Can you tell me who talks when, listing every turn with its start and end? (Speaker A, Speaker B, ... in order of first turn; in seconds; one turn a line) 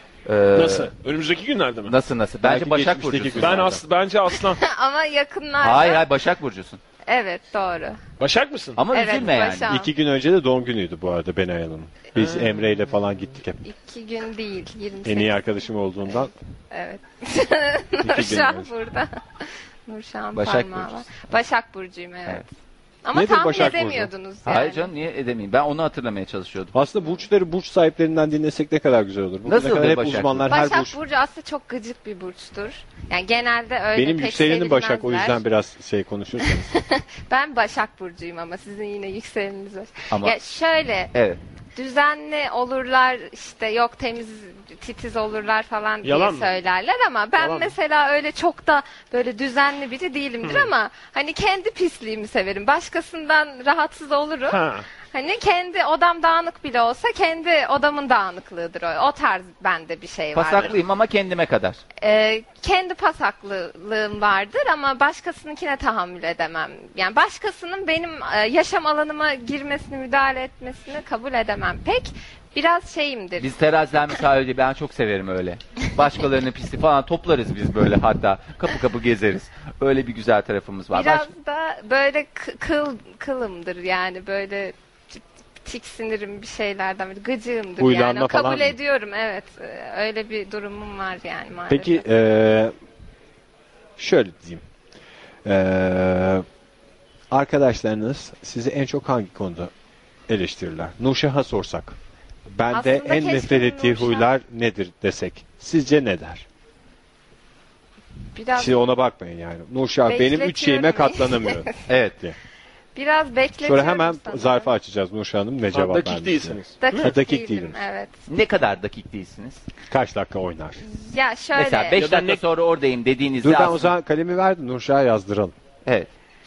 Speaker A: 0.3-0.9
Speaker B: 0.6-1.9
Speaker A: 1.9-3.7
Speaker C: 2.4-3.8
Speaker B: 3.4-4.6
Speaker D: 4.4-6.1
Speaker A: 5.6-6.8
Speaker D: 7.1-8.0
Speaker B: 8.2-8.8
Speaker A: 8.8-9.7
Speaker D: 8.9-9.9
Speaker C: 9.7-13.6
Speaker B: 12.2-12.6
Speaker D: 13.7-15.5
Speaker C: 15.1-16.3
Speaker D: 16.7-22.5
Speaker C: 18.0-18.7
Speaker A: 20.3-21.3
Speaker D: 23.1-24.9
Speaker C: 23.1-24.1
Speaker A: 24.4-26.7
Speaker C: 26.7-31.0
Speaker A: 29.4-30.5
Speaker D: 30.5-35.4
Speaker C: 33.9-36.7
Speaker D: 36.4-41.1
Speaker A: 40.1-40.4
Speaker A: 41.1-41.4
Speaker D: 41.8-60.8
Speaker B: 46.0-46.5
Speaker B: 47.4-47.7
Speaker B: 50.4-50.7
Speaker B: 54.5-54.9
Speaker A: 60.3-61.8
Speaker D: 62.0-73.5
Speaker A: 73.4-81.3
Speaker D: 80.9-92.1
Speaker C: 87.8-88.8
Speaker C: 91.7-92.7
Speaker C: 94.0-94.6
Speaker C: 95.4-96.4
Speaker C: 97.3-99.7
Speaker C: 100.3-102.0
Speaker C: 102.5-106.5
Speaker D: 102.7-104.3
Speaker D: 108.3-108.8
Speaker C: 108.5-112.3
Speaker D: 110.1-111.8
Speaker A: 111.9-112.2
Speaker D: 112.9-114.7
Speaker C: 113.6-117.8
Speaker B: 115.7-117.1
Speaker D: 116.8-118.1
Speaker A: 118.3-119.6
Speaker C: 119.9-120.8
Speaker D: 120.8-122.0
Speaker A: 121.5-123.9
Speaker B: 122.0-122.4
Speaker C: 123.4-125.5